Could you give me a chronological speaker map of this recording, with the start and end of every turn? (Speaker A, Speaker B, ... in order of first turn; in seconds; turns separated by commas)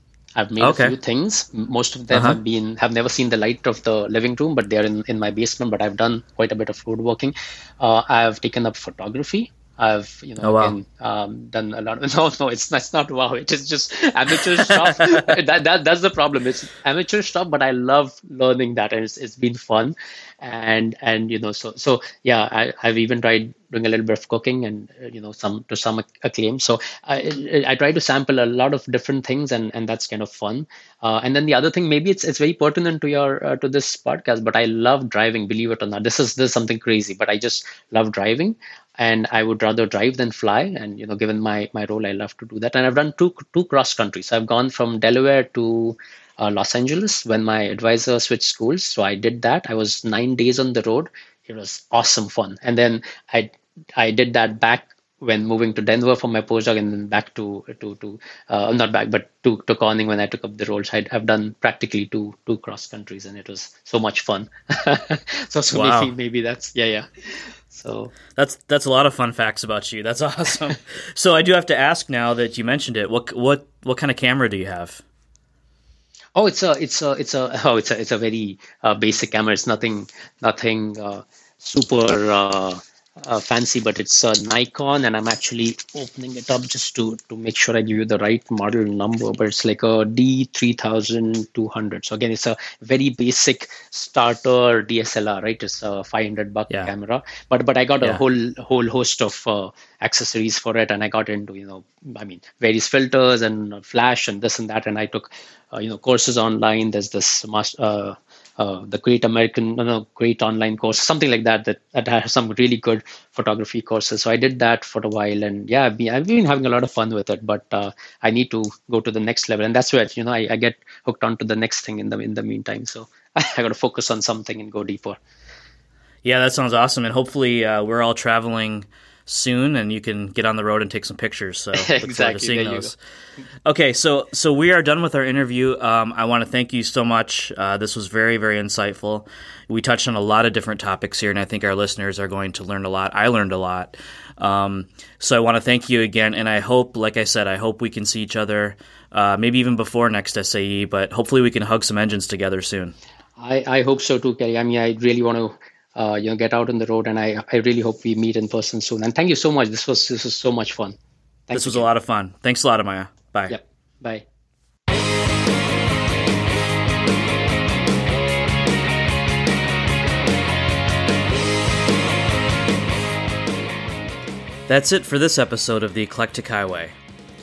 Speaker A: 0.4-68.1, Speaker B: 0.6-0.9, Speaker B: 2.1-2.4, Speaker B: 10.4-10.8, Speaker B: 65.7-66.1, Speaker B: 68.4-75.0, Speaker A: 76.4-125.2, Speaker B: 126.2-132.9, Speaker A: 131.8-132.9, Speaker B: 133.7-152.9, Speaker A: 153.4-161.0, Speaker A: 161.5-161.9, Speaker B: 161.5-163.6, Speaker A: 163.5-164.2, Speaker B: 174.7-176.9